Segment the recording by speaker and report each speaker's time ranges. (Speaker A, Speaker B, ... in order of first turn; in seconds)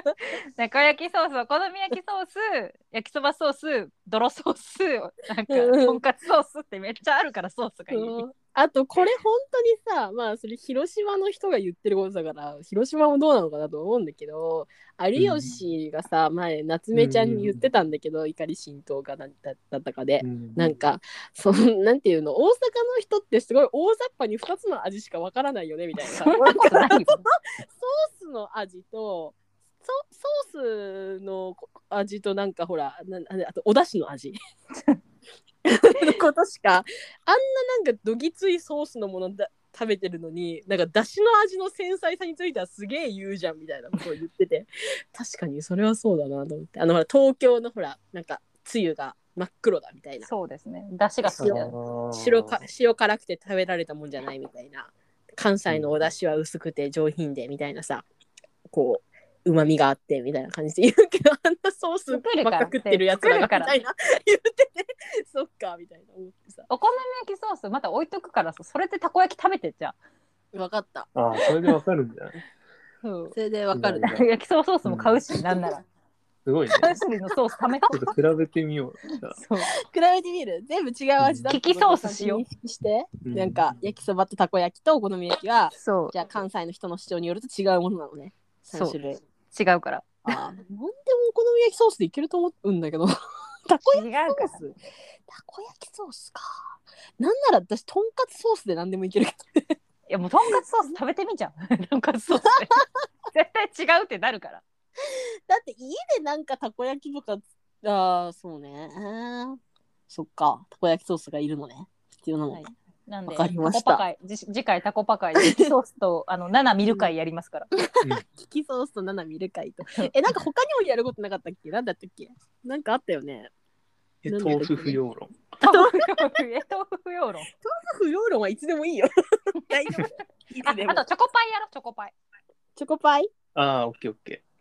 Speaker A: 0.6-8.2, 26.0-27.2, 50.2-51.7, 62.1-63.7, 66.7-70.0, 73.0-73.3, 74.0-75.8, 76.7-78.0, 79.3-79.7, 81.5-82.4, 85.7-86.1, 89.5-90.4, 93.9-94.6, 100.1-104.6, 112.5-117.7, 125.6-127.5, 129.7-130.1, 130.6-132.1
Speaker B: 5.5-6.0, 7.9-34.4, 35.6-50.3, 51.3-58.0, 58.7-66.7, 70.5-71.1, 73.3-74.2, 79.9-89.2, 90.2-93.1, 93.7-94.8, 95.3-99.8, 102.3-102.8, 105.1-109.6, 110.1-112.6, 113.3-114.0, 115.4-115.7, 118.2-123.5, 124.3-125.0, 125.6-126.3, 127.6-129.1, 129.7-131.0, 132.8-133.3
Speaker C: 15.2-15.6, 16.9-17.6, 20.2-20.8, 51.4-52.6, 71.1-72.4, 73.7-74.2, 74.8-75.2, 76.4-77.0, 77.9-79.4, 81.2-81.5, 83.2-83.7, 124.2-125.3, 133.5-134.4